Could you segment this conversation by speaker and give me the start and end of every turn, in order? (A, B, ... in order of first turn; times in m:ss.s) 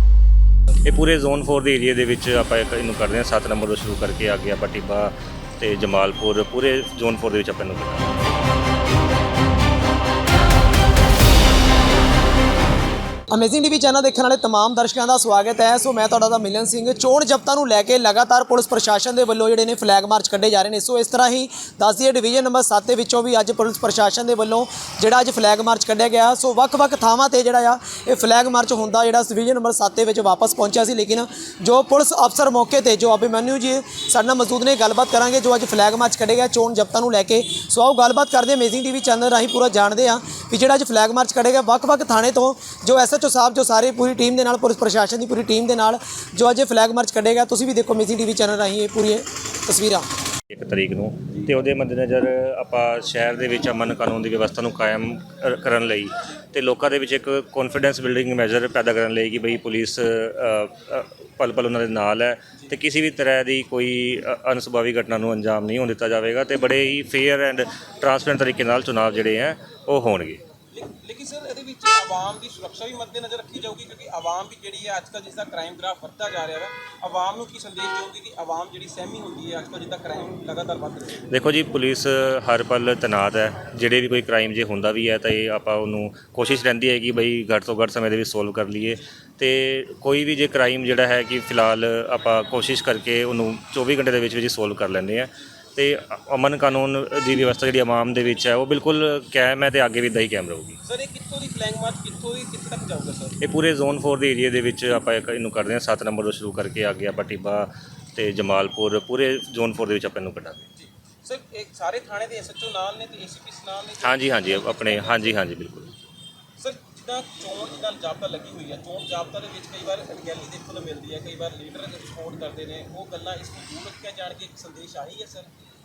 0:00.8-0:08.1 A
0:13.3-0:50.1 B
0:50.5-1:10.4 A
1:10.7-1:21.2 C
1:21.3-1:40.8 A
1:40.8-1:43.4 C
1:43.4-1:50.7 A
1:50.8-1:55.4 C
1:54.0-1:55.9 A
1:56.6-2:05.5 C